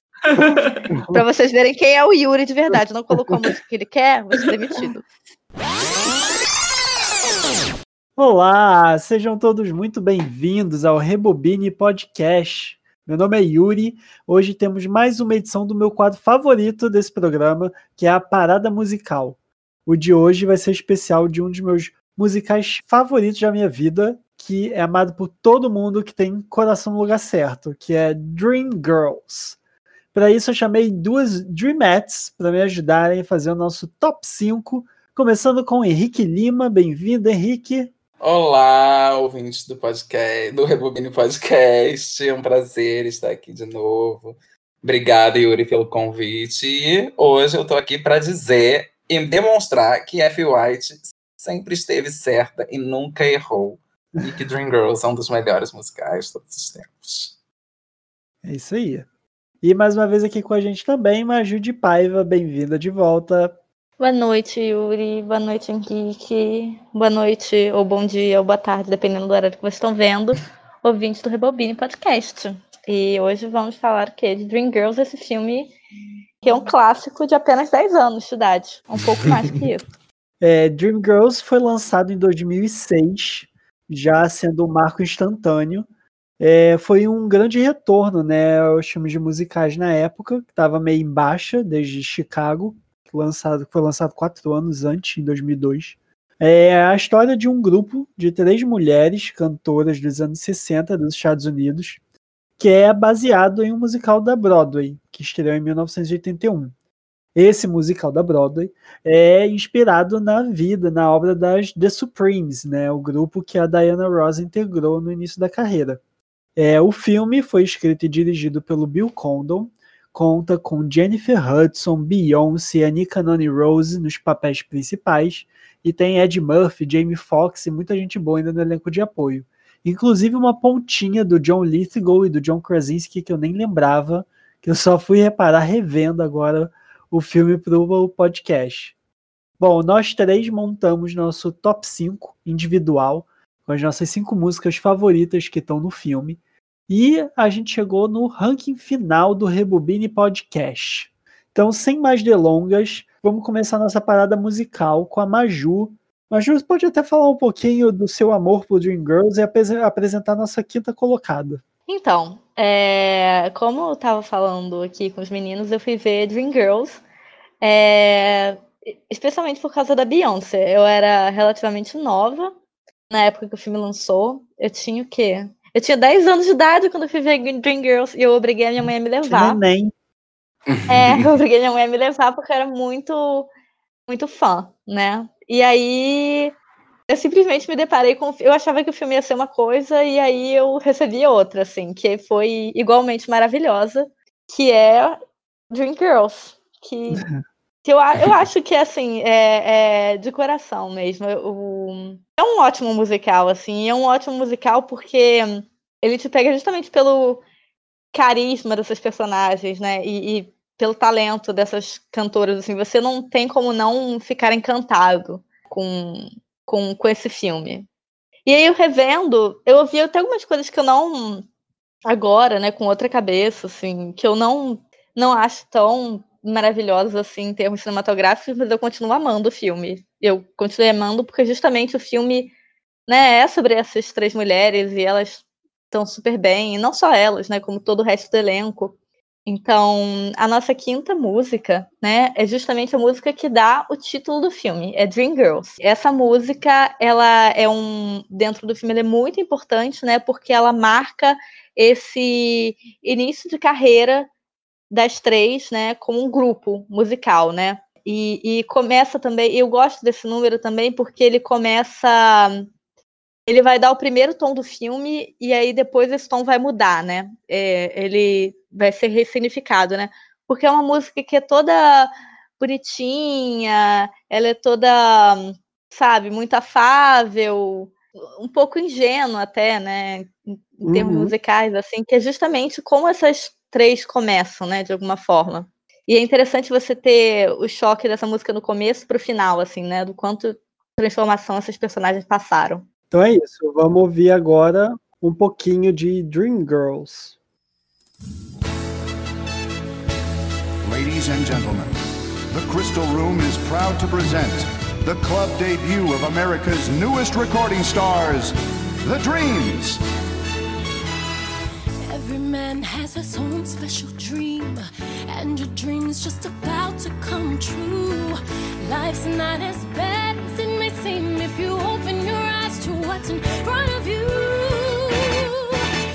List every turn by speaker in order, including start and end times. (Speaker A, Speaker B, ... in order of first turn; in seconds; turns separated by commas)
Speaker A: 0.3-0.8, Speaker B: 0.9-1.2, Speaker C: 1.1-5.1, Speaker B: 8.2-29.6, Speaker B: 30.1-37.9, Speaker A: 38.2-57.3, Speaker B: 58.4-59.1, Speaker B: 59.6-63.6, Speaker C: 64.0-75.7, Speaker C: 76.4-79.8, Speaker B: 80.4-85.9, Speaker B: 86.4-102.0, Speaker B: 102.6-106.7, Speaker B: 107.3-116.0, Speaker B: 116.6-138.9, Speaker B: 139.6-161.6, Speaker C: 161.9-167.0, Speaker C: 167.6-172.5, Speaker C: 173.1-179.6, Speaker B: 179.3-179.9, Speaker A: 180.7-181.3, Speaker C: 180.9-183.5, Speaker C: 184.1-186.5, Speaker C: 187.1-195.2, Speaker C: 195.7-197.2, Speaker C: 197.8-207.4, Speaker C: 208.1-217.9, Speaker C: 218.5-221.4, Speaker C: 222.1-232.5, Speaker C: 233.1-238.9, Speaker C: 239.5-254.3, Speaker C: 254.9-262.7, Speaker C: 263.5-292.9, Speaker B: 280.9-281.3, Speaker B: 293.1-297.4, Speaker D: 300.9-302.0, Speaker D: 302.5-310.0, Speaker E: 312.1-325.8